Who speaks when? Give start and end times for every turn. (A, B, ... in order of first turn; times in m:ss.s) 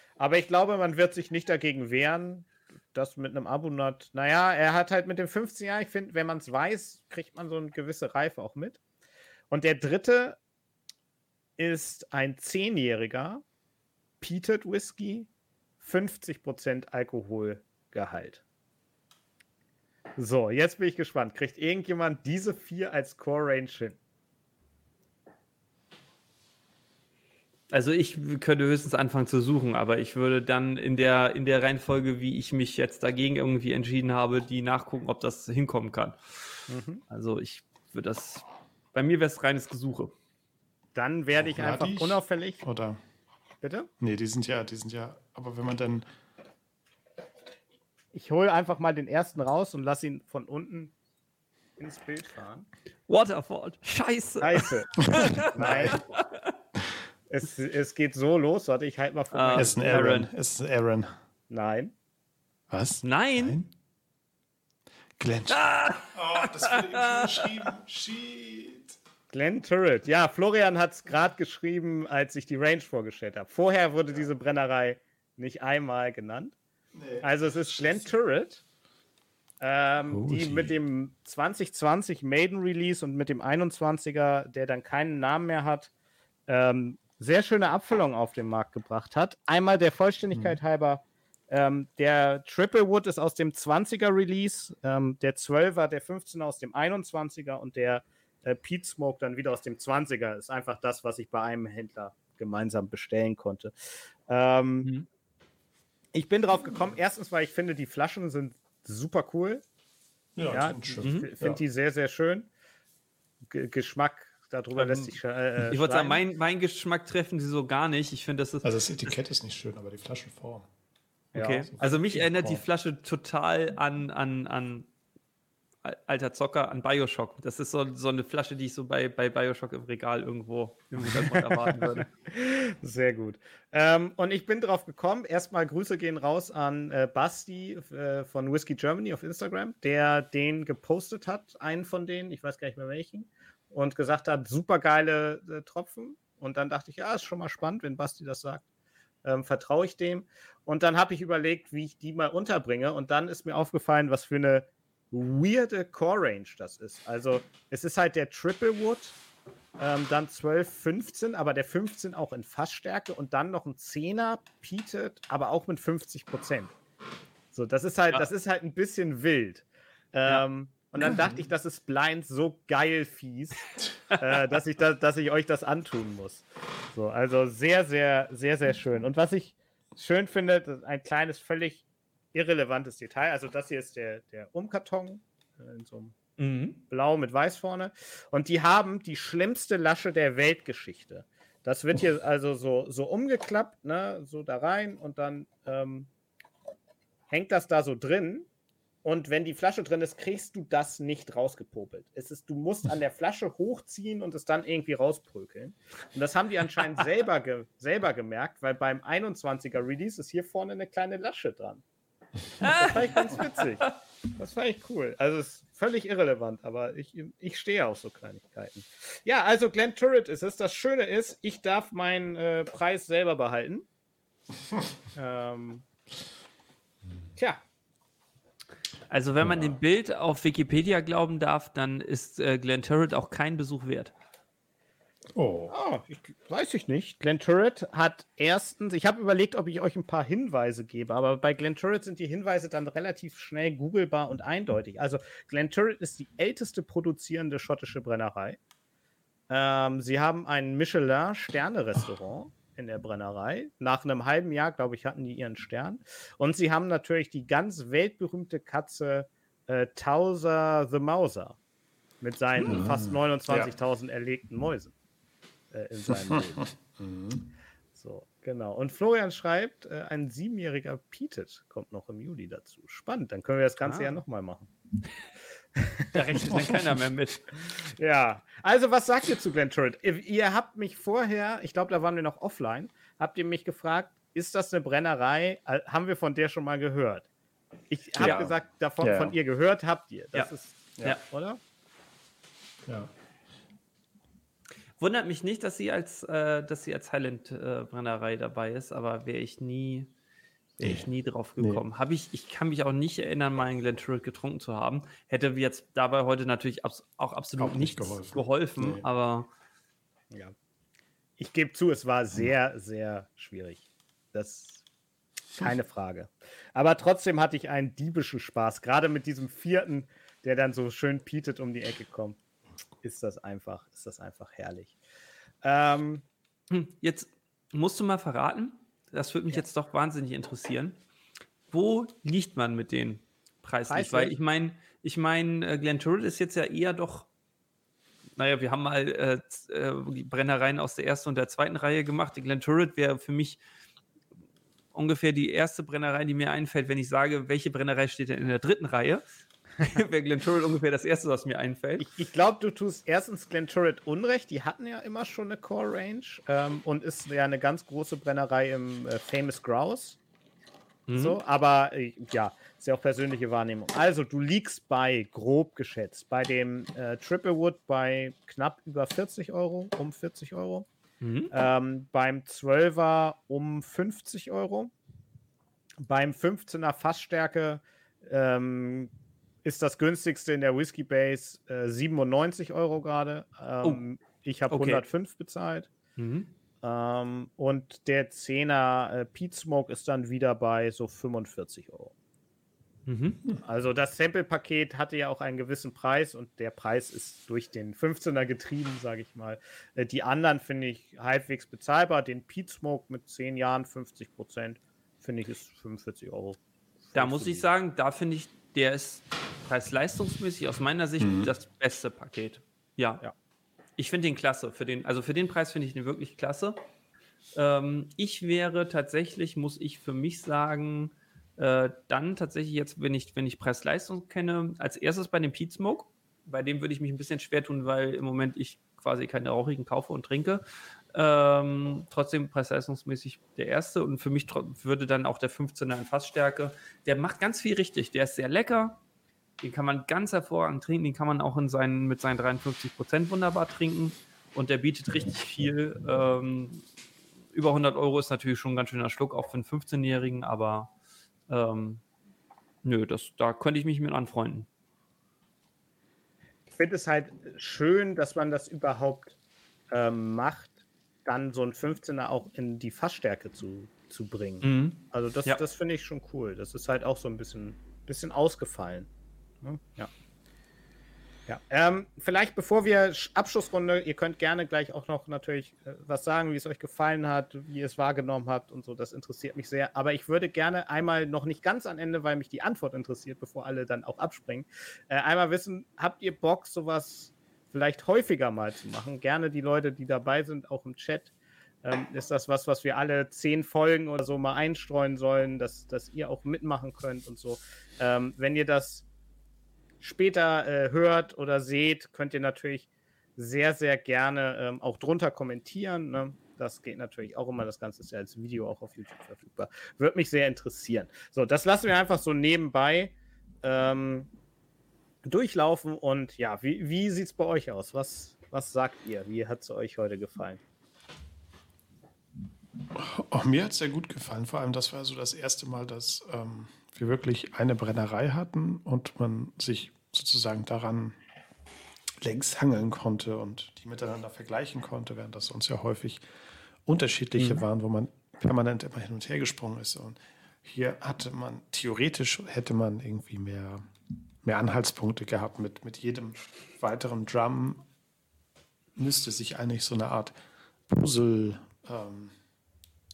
0:00.2-0:08.8 A
0:09.5-0:10.4 A
0:11.6-0:13.4 A
0:14.2-0:15.3 A
0:15.8-0:18.4 A
0:20.2-0:24.0 A
0:27.7-0:40.1 B
0:36.7-0:37.0 A
0:41.0-0:42.6 A
0:41.4-0:43.0 C
0:43.6-0:43.9 A
0:44.0-0:46.1 C
0:48.1-0:50.9 A
0:51.8-0:52.7 A
0:53.1-0:56.4 B
0:54.4-0:56.0 A
0:55.1-0:56.0 C
0:57.3-1:00.2 A
0:59.3-1:00.3 B
0:59.5-1:01.1 C
1:01.5-1:01.9 A
1:02.7-1:03.7 C
1:03.0-1:03.6 B
1:05.2-1:09.0 C
1:05.5-1:07.6 B
1:09.3-1:16.6 A
1:17.0-1:18.0 C
1:17.2-1:18.6 A
1:19.6-1:25.9 A
1:20.0-1:20.8 C
1:26.5-1:44.9 A
1:46.1-1:49.6 A
1:50.4-1:51.6 C
1:50.5-1:52.5 A
1:51.0-1:51.3 B
1:53.5-1:56.2 A
1:54.8-1:59.1 B
1:58.6-2:00.7 C
2:01.3-2:02.3 A
2:01.4-2:04.9 B
2:01.8-2:02.6 C
2:05.8-2:12.1 B
2:11.0-2:28.6 A
2:29.2-2:39.2 A
2:39.8-2:46.7 A
2:47.5-3:06.2 A
3:06.4-3:06.8 B
3:06.9-3:16.1 A
3:17.3-3:18.5 A
3:19.0-3:31.8 A
3:32.6-3:43.9 A
3:32.6-3:33.9 B
3:45.2-3:45.8 A
3:47.4-3:47.6 A
3:49.1-3:54.1 B
3:49.4-3:49.8 C
3:55.3-3:55.8 C
3:55.7-4:08.6 A
4:09.5-4:21.6 A
4:22.2-4:24.9 A
4:22.6-4:23.7 C
4:25.7-4:26.7 A
4:26.3-4:27.4 C
4:28.0-4:34.7 A
4:33.8-4:34.2 B
4:35.8-4:36.5 A
4:36.1-4:37.6 B
4:37.7-4:47.3 A
4:47.9-4:51.6 A
4:48.2-4:49.3 C
4:55.0-5:00.1 B
5:00.8-5:09.5 B
5:00.8-5:01.1 C
5:01.6-5:01.8 C
5:07.6-5:09.0 C
5:11.4-5:14.8 A
5:15.6-5:22.4 A
5:23.0-5:25.0 A
5:25.6-5:26.2 A
5:26.7-5:31.0 B
5:31.7-5:37.3 B
5:33.9-5:34.4 A
5:38.4-5:43.6 B
5:44.9-5:49.2 B
5:49.8-5:52.1 B
5:52.0-6:00.2 A
6:01.1-6:01.4 B
6:01.1-6:10.9 A
6:11.2-6:11.5 B
6:11.5-6:14.9 A
6:16.0-6:19.1 A
6:19.6-6:25.9 A
6:24.7-6:25.0 B
6:26.2-6:26.5 B
6:26.8-6:32.1 A
6:33.1-6:33.4 B
6:33.6-6:47.7 A
6:47.1-6:53.2 B
6:51.2-6:51.5 C
6:54.0-6:56.8 B
6:57.5-7:19.0 B
7:19.6-7:26.8 B
7:27.5-7:30.9 B
7:31.5-7:32.0 B
7:32.8-7:34.7 B
7:36.7-7:39.4 A
7:39.9-7:49.1 A
7:44.6-7:45.6 B
7:49.6-7:50.1 A
7:51.5-8:11.3 A
8:11.8-8:19.1 A
8:20.0-8:34.3 A
8:35.2-8:40.6 A
8:42.9-8:51.2 C
8:52.2-8:56.2 C
8:56.9-9:03.9 C
8:57.4-8:57.6 B
9:04.4-9:07.8 C
9:09.0-9:10.3 C
9:10.9-9:12.4 C